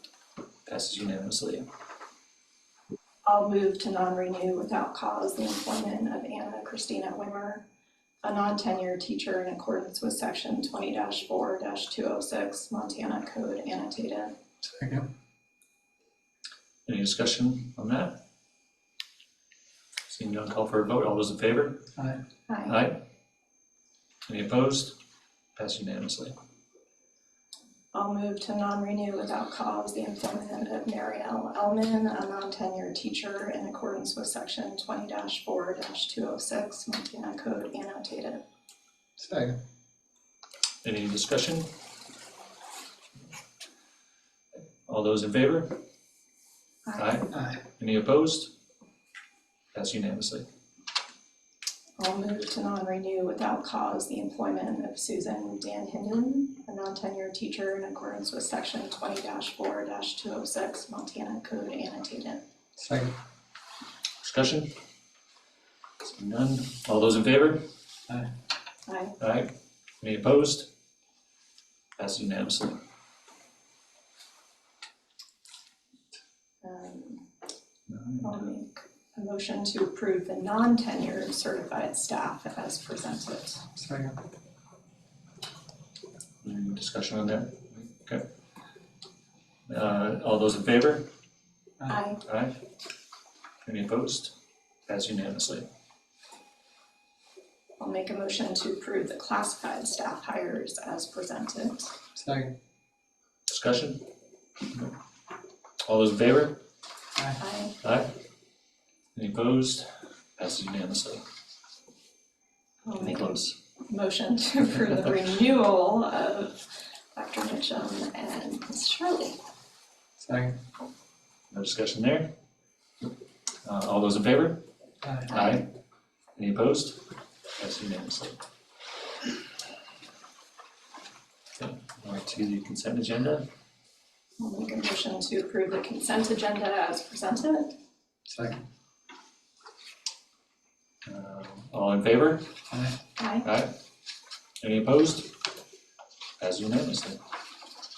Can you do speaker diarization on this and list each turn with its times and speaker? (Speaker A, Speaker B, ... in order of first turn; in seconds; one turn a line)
Speaker A: 0.7-1.6
Speaker B: 3.2-7.6
Speaker B: 8.2-14.3
Speaker C: 14.6-15.1
Speaker A: 16.9-18.2
Speaker A: 20.1-21.8
Speaker B: 22.5-22.8
Speaker A: 22.7-23.0
Speaker A: 24.3-24.9
Speaker A: 25.6-26.3
Speaker B: 27.9-38.4
Speaker C: 39.2-39.6
Speaker A: 40.8-41.7
Speaker A: 44.9-45.8
Speaker B: 46.9-47.2
Speaker A: 47.0-48.5
Speaker C: 47.3-47.6
Speaker A: 49.7-50.5
Speaker B: 52.0-62.4
Speaker C: 62.8-63.1
Speaker A: 64.2-64.7
Speaker A: 66.0-67.6
Speaker B: 68.9-69.1
Speaker A: 69.2-70.7
Speaker A: 72.0-72.8
Speaker B: 76.6-77.2
Speaker A: 77.9-78.5
Speaker B: 78.2-83.6
Speaker C: 83.7-84.2
Speaker A: 86.4-88.2
Speaker A: 89.7-91.1
Speaker B: 91.9-92.2
Speaker A: 92.2-92.6
Speaker A: 93.6-94.3
Speaker A: 94.9-95.7
Speaker B: 97.8-101.9
Speaker C: 102.1-102.5
Speaker A: 103.5-104.0
Speaker A: 105.8-106.6
Speaker C: 107.2-107.4
Speaker B: 107.4-107.7
Speaker A: 107.8-108.1
Speaker A: 109.1-109.8
Speaker A: 110.4-111.2
Speaker B: 112.8-119.4
Speaker A: 112.9-113.5
Speaker C: 120.2-120.6
Speaker A: 121.5-122.3
Speaker A: 123.6-124.6
Speaker C: 125.0-125.3
Speaker A: 125.3-125.7
Speaker A: 126.3-127.0
Speaker A: 127.6-128.4
Speaker A: 131.6-133.5
Speaker B: 134.4-137.7
Speaker C: 138.2-138.6
Speaker A: 141.0-142.4
Speaker C: 142.7-142.9
Speaker B: 143.2-143.5
Speaker A: 143.4-143.7
Speaker A: 144.6-145.3
Speaker A: 146.4-147.2